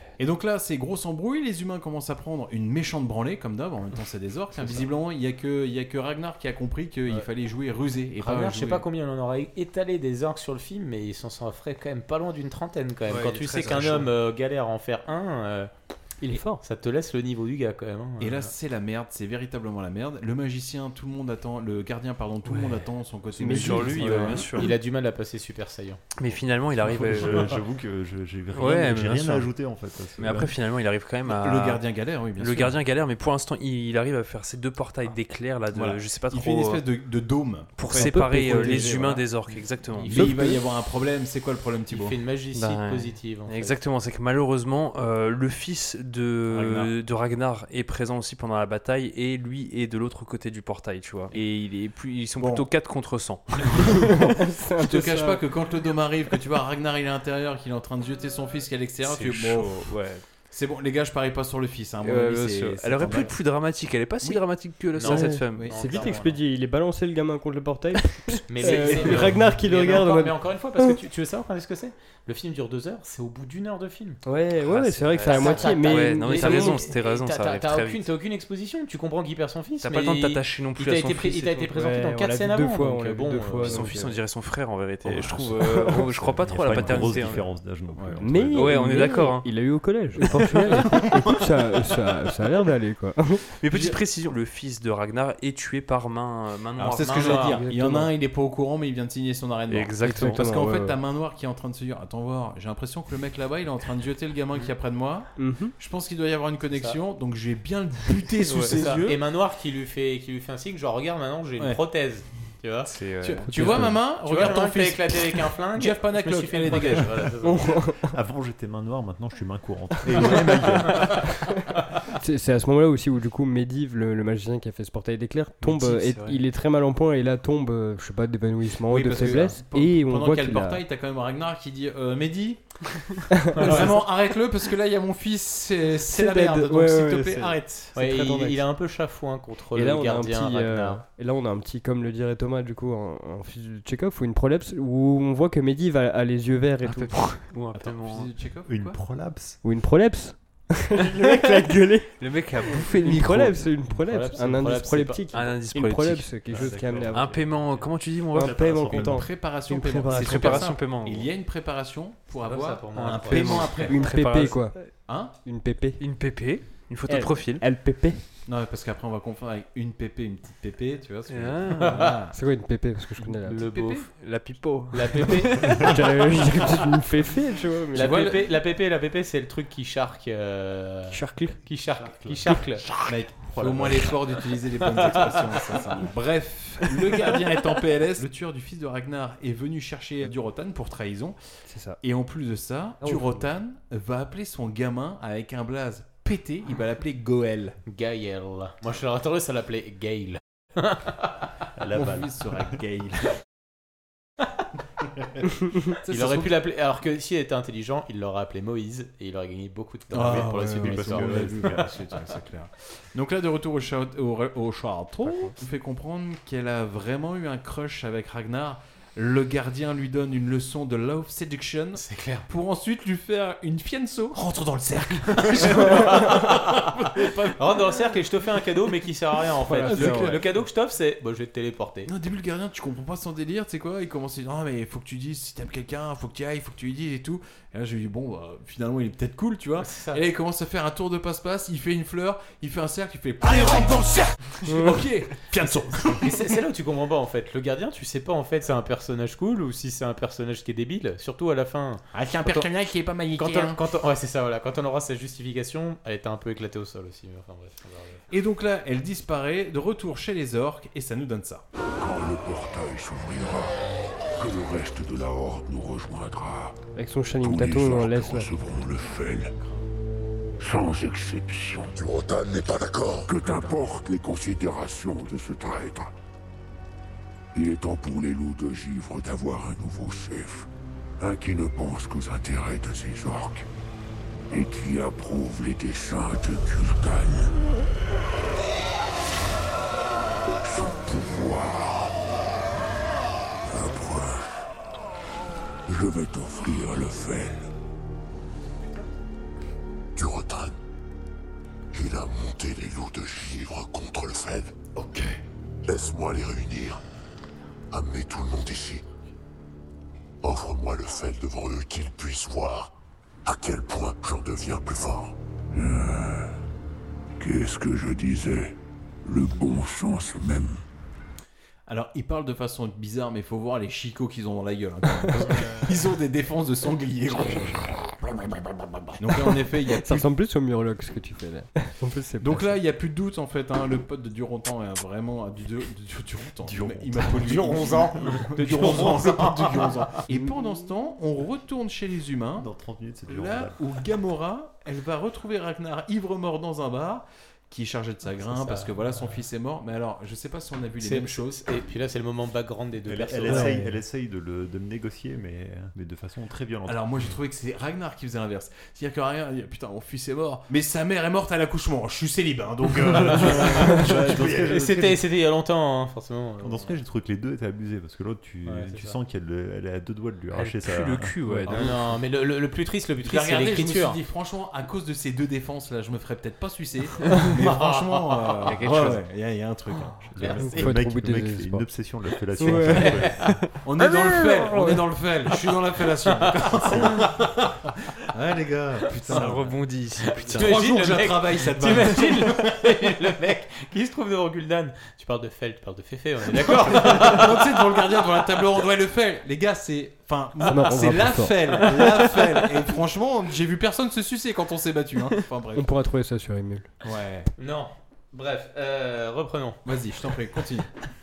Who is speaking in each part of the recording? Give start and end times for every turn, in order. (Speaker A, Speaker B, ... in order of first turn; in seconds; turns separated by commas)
Speaker A: 0.2-8.8, Speaker B: 4.6-4.9, Speaker B: 8.2-15.7, Speaker C: 13.1-14.1, Speaker A: 13.6-14.0, Speaker D: 16.2-16.6, Speaker B: 16.4-18.5, Speaker A: 18.2-24.7, Speaker D: 22.5-22.8, Speaker D: 23.4-24.3, Speaker C: 23.5-24.7, Speaker B: 24.0-26.0, Speaker C: 26.1-27.5, Speaker E: 26.9-30.5, Speaker C: 28.5-29.5, Speaker C: 30.2-31.8, Speaker A: 31.2-32.8, Speaker C: 32.4-36.8, Speaker A: 35.7-38.9, Speaker C: 37.8-40.2, Speaker D: 37.8-39.2, Speaker B: 38.5-40.5, Speaker A: 40.0-42.1, Speaker D: 40.1-40.6, Speaker B: 41.9-43.8, Speaker C: 42.5-54.3, Speaker A: 46.5-46.9, Speaker A: 52.4-52.7, Speaker D: 54.1-55.4, Speaker A: 54.8-59.9, Speaker C: 59.0-60.2, Speaker A: 60.5-63.3, Speaker C: 62.0-65.7, Speaker B: 64.9-66.4, Speaker D: 65.0-71.0, Speaker B: 68.5-74.2, Speaker C: 68.6-69.1, Speaker D: 74.2-76.9, Speaker C: 74.7-78.1, Speaker B: 75.2-84.0, Speaker C: 79.8-81.5, Speaker D: 81.4-84.2, Speaker C: 83.6-87.4, Speaker E: 85.0-85.5, Speaker D: 85.5-86.0, Speaker E: 86.0-88.8, Speaker A: 86.7-87.4, Speaker A: 87.9-88.2, Speaker D: 88.2-93.5, Speaker C: 88.5-89.7, Speaker C: 93.6-97.6, Speaker A: 96.8-109.2, Speaker B: 97.0-97.6, Speaker D: 97.6-98.1, Speaker C: 99.7-100.6, Speaker D: 100.0-101.0, Speaker D: 105.4-105.7, Speaker C: 108.4-109.0, Speaker B: 108.7-112.9, Speaker C: 112.9-113.9, Speaker A: 113.2-117.3, Speaker D: 113.5-114.0, Speaker B: 113.7-117.8, Speaker D: 117.4-118.1, Speaker E: 118.0-121.4, Speaker D: 120.3-121.5, Speaker D: 122.2-130.8, Speaker C: 125.6-126.4, Speaker A: 128.8-133.1, Speaker D: 133.3-133.9, Speaker B: 133.6-134.1, Speaker A: 133.6-137.9, Speaker D: 136.1-138.6, Speaker B: 137.9-141.0, Speaker D: 139.7-147.3, Speaker C: 146.8-148.3, Speaker A: 147.7-149.0, Speaker E: 148.7-149.6, Speaker D: 149.6-152.1, Speaker C: 152.2-153.6, Speaker D: 152.9-157.4, Speaker B: 153.9-155.3, Speaker C: 155.3-158.8, Speaker E: 156.5-159.3, Speaker D: 158.3-160.6, Speaker A: 158.9-165.3, Speaker C: 160.1-161.3, Speaker B: 162.4-164.0, Speaker C: 163.2-164.9, Speaker D: 163.7-166.0, Speaker C: 166.0-167.6, Speaker D: 167.1-168.2, Speaker A: 168.4-172.3, Speaker C: 171.3-172.1, Speaker B: 171.9-172.1, Speaker D: 172.3-173.6, Speaker B: 173.4-174.1, Speaker C: 174.1-175.8, Speaker B: 174.9-175.9, Speaker D: 175.5-178.5, Speaker B: 177.9-182.9, Speaker D: 181.1-181.6, Speaker E: 181.9-182.4, Speaker A: 183.0-191.3, Speaker E: 183.5-184.0, Speaker D: 191.7-192.0, Speaker A: 192.0-197.8, Speaker B: 197.9-201.5, Speaker E: 201.8-202.7, Speaker A: 202.0-203.3, Speaker A: 206.0-206.5, Speaker B: 206.1-211.8, Speaker A: 210.1-227.1, Speaker E: 210.2-211.9, Speaker B: 221.9-222.4, Speaker B: 225.4-232.1, Speaker D: 229.7-230.4, Speaker A: 229.8-230.4, Speaker A: 232.1-246.6, Speaker B: 239.8-240.2, Speaker D: 244.7-245.0, Speaker B: 246.0-252.7, Speaker A: 252.1-253.8, Speaker B: 253.3-258.2, Speaker A: 258.3-261.6, Speaker F: 262.0-263.7, Speaker F: 264.3-266.8, Speaker D: 266.9-268.5, Speaker F: 267.4-269.5, Speaker F: 270.6-276.1, Speaker F: 277.5-280.7, Speaker F: 281.2-283.7, Speaker F: 284.5-287.5, Speaker F: 290.6-292.2, Speaker F: 293.6-294.7, Speaker F: 295.9-297.7, Speaker F: 300.1-300.7, Speaker F: 301.9-304.8, Speaker F: 305.8-307.0, Speaker F: 307.9-309.0, Speaker F: 310.4-316.6, Speaker F: 317.4-320.8, Speaker A: 321.9-327.9, Speaker A: 329.2-330.2, Speaker D: 329.9-332.8, Speaker A: 332.4-342.7, Speaker B: 337.2-340.0, Speaker E: 342.6-343.8, Speaker A: 343.3-351.6, Speaker B: 348.4-349.4, Speaker B: 351.0-353.8, Speaker E: 353.1-357.1, Speaker D: 353.5-353.9, Speaker A: 356.9-364.7, Speaker B: 363.1-366.9, Speaker E: 363.2-365.2, Speaker E: 366.6-371.4, Speaker B: 368.6-369.1, Speaker C: 370.8-372.0, Speaker D: 371.4-371.7, Speaker B: 371.7-374.2, Speaker A: 373.2-380.6, Speaker B: 377.5-378.9, Speaker C: 378.6-379.2, Speaker E: 380.3-383.6, Speaker B: 380.4-380.9, Speaker D: 380.6-381.9, Speaker D: 382.6-383.3, Speaker B: 382.8-383.4, Speaker A: 383.8-387.3, Speaker D: 384.7-385.0, Speaker B: 386.4-387.3, Speaker A: 388.3-389.8, Speaker C: 389.3-390.8, Speaker B: 390.2-397.8, Speaker A: 390.4-392.9, Speaker A: 396.6-405.9, Speaker D: 400.6-401.9, Speaker D: 405.8-406.9, Speaker A: 407.0-407.5, Speaker B: 407.6-409.8, Speaker A: 409.8-410.9